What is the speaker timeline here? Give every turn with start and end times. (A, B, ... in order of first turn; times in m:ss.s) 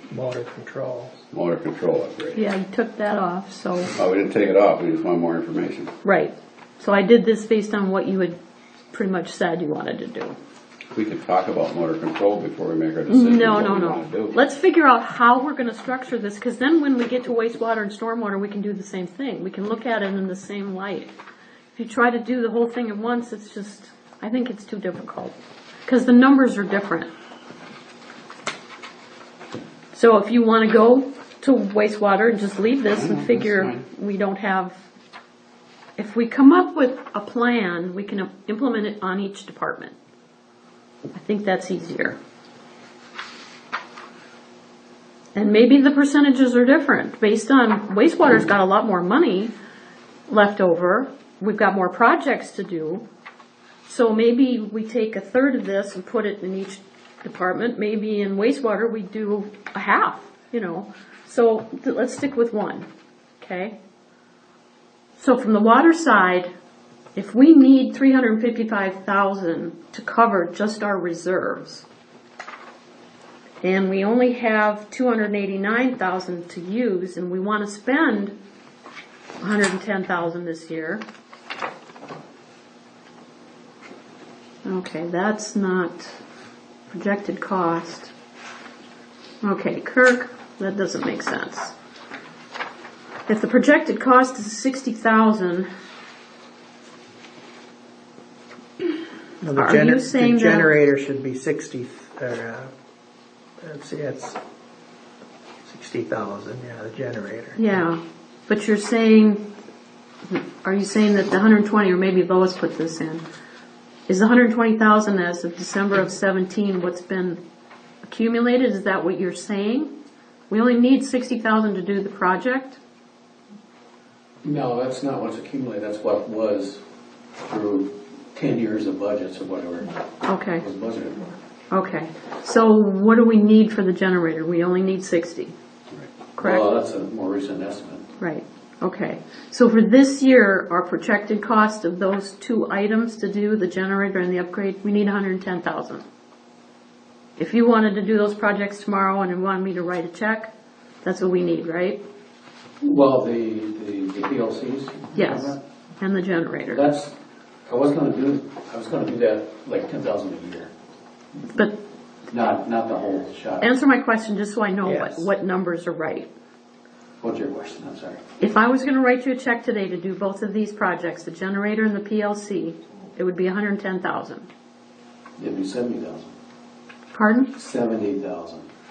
0:00.1-0:01.1 A
0:01.3-0:02.4 B
0:02.4-0:03.9 C
0:04.0-0:05.9 B
0:06.0-0:08.4 C
0:08.9-0:10.4 C
0:10.9-0:14.4 B
0:13.1-0:21.1 C
0:21.7-0:27.1 C
0:29.9-0:34.8 C
0:32.9-0:33.8 B
0:36.0-0:40.0 C
0:41.1-0:42.2 C
0:45.4-0:49.5 C
0:50.3-0:53.0 C
0:53.9-1:02.9 C
1:03.4-1:03.8 C
1:05.2-1:06.5 C
1:07.2-1:11.9 C
1:13.6-1:18.3 C
1:19.4-1:21.0 C
1:24.6-1:26.2 C
1:26.9-1:28.1 C
1:29.4-1:31.7 C
1:33.3-1:35.7 C
1:39.4-1:42.7 A
1:39.5-1:40.7 C
1:43.6-1:44.4 A
1:45.6-1:47.6 A
1:47.6-1:49.5 C
1:50.3-1:53.2 C
1:54.1-1:57.4 C
1:58.0-1:59.9 C
2:00.5-2:02.8 C
2:04.4-2:06.8 D
2:07.4-2:10.0 D
2:10.2-2:10.6 C
2:10.6-2:11.3 D
2:11.7-2:15.5 C
2:16.4-2:16.7 C
2:16.4-2:18.1 D
2:18.2-2:26.0 C
2:27.4-2:30.5 C
2:31.0-2:32.0 C
2:32.8-2:35.6 D
2:35.1-2:36.9 C
2:36.7-2:37.1 D
2:37.6-2:40.7 D
2:42.3-2:43.7 D
2:43.6-2:46.3 C
2:44.9-2:45.3 A
2:47.2-2:48.2 D
2:48.4-2:54.5 C
2:55.4-2:56.3 D
2:57.1-2:57.5 C
2:57.6-2:58.7 D